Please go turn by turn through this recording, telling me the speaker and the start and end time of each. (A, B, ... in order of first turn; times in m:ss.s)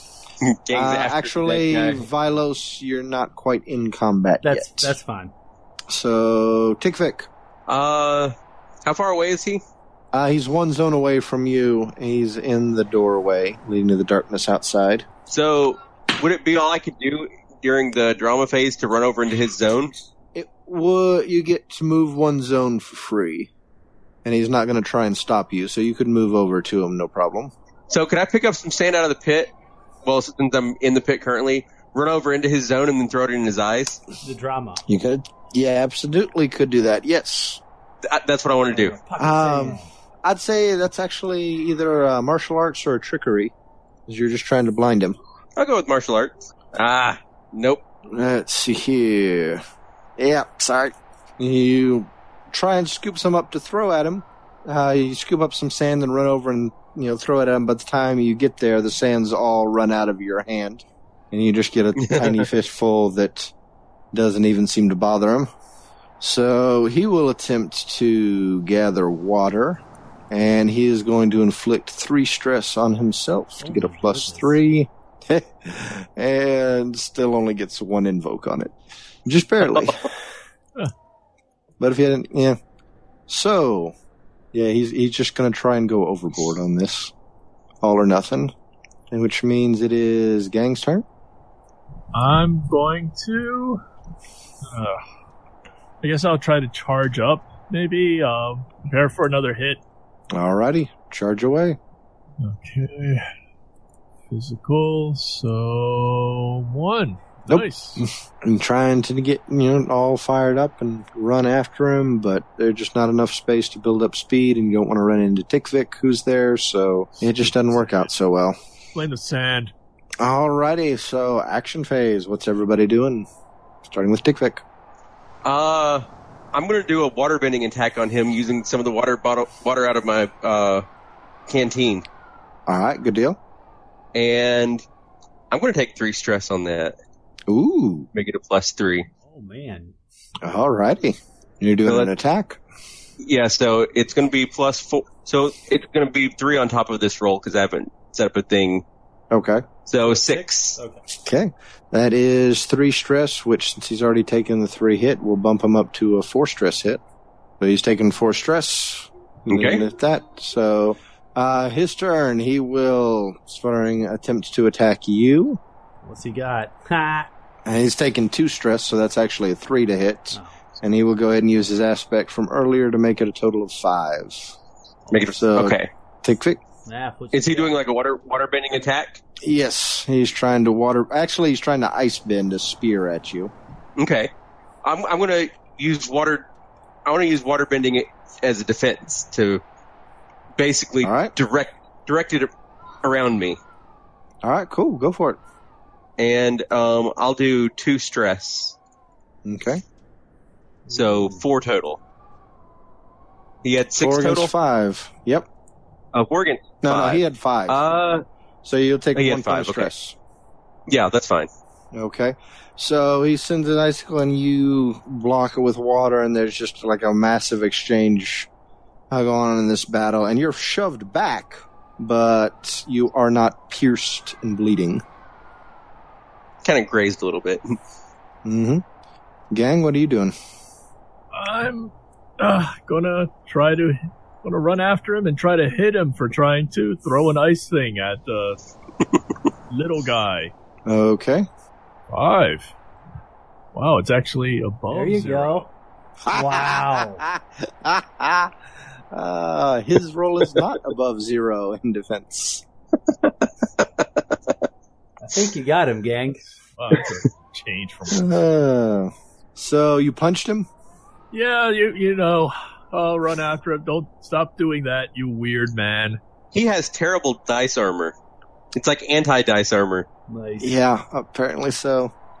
0:00.4-0:02.0 A
0:00.7-0:04.9 B
0:04.4-0:05.3 C
0:05.9-0:07.3 B
0:07.7-0:08.3 A
0:08.8-0:09.6 A
0:10.1-0:15.1 B
0:15.3-0:19.9 A
0:20.3-0:23.5 B
0:24.2-0:27.5 B
0:27.9-0:29.5 A
0:30.0-0:34.0 A
0:34.2-0:34.8 C
0:34.8-0:37.6 B
0:38.0-0:39.0 A
0:38.7-0:39.9 C
0:39.2-0:43.5 B
0:44.1-0:45.2 B
0:45.6-0:47.8 A
0:48.1-0:49.6 B
0:50.2-1:03.5 B
1:02.0-1:02.4 A
1:04.1-1:05.5 B
1:06.2-1:18.7 B
1:13.6-1:14.6 C
1:19.2-1:20.1 B
1:21.8-1:22.6 B
1:23.3-1:23.9 B
1:24.5-1:27.1 B
1:27.8-1:28.5 B
1:29.1-1:31.0 B
1:32.1-1:33.8 D
1:34.7-1:35.0 D
1:36.0-1:39.8 D
1:40.3-1:41.8 B
1:42.4-1:43.3 D
1:44.3-1:48.0 D
1:47.5-1:58.5 B
1:57.4-1:58.1 D
1:58.9-1:59.7 D
2:00.2-2:03.3 B
2:03.8-2:04.6 B
2:05.4-2:10.8 A
2:11.5-2:12.0 A
2:12.7-2:13.4 B
2:14.1-2:14.8 A
2:15.5-2:16.9 A
2:17.5-2:18.1 B
2:18.1-2:19.1 A
2:19.2-2:19.9 C
2:20.4-2:22.6 B
2:21.8-2:22.1 A
2:23.2-2:28.8 A
2:29.3-2:29.6 B
2:29.9-2:30.8 A
2:30.0-2:31.0 C
2:31.2-2:37.0 B
2:37.6-2:45.6 B
2:39.5-2:39.8 A
2:46.0-2:47.3 C
2:47.6-2:54.5 B
2:55.1-2:55.9 A
2:55.4-2:56.6 B
2:56.8-2:57.8 C
2:57.3-2:59.2 A
2:59.4-3:03.5 B
3:04.0-3:04.3 A
3:04.8-3:06.4 A
3:07.0-3:09.6 A
3:10.6-3:12.5 A
3:11.0-3:11.3 B
3:13.0-3:13.6 A
3:14.4-3:15.4 B
3:16.2-3:18.8 A
3:19.4-3:19.8 B
3:20.9-3:21.4 C
3:20.9-3:22.0 A
3:23.6-3:24.5 A
3:24.0-3:25.5 B
3:26.1-3:28.2 A
3:26.8-3:27.8 B
3:28.6-3:30.2 B
3:29.1-3:29.9 A
3:30.9-3:31.5 A
3:31.9-3:38.5 B
3:39.1-3:45.0 B
3:46.6-3:47.8 A
3:48.4-3:48.8 B
3:49.5-3:50.3 B
3:51.3-3:58.6 D
3:59.7-4:00.5 D
4:00.8-4:01.5 B
4:02.1-4:02.7 D
4:03.7-4:05.6 D
4:04.9-4:05.7 C
4:06.2-4:08.5 B
4:06.3-4:07.2 C
4:09.1-4:12.6 B
4:15.2-4:16.4 C
4:16.8-4:18.3 D
4:18.1-4:20.7 B
4:21.3-4:26.2 D
4:26.5-4:28.1 A
4:28.7-4:30.1 A
4:30.3-4:30.8 C
4:30.6-4:32.1 B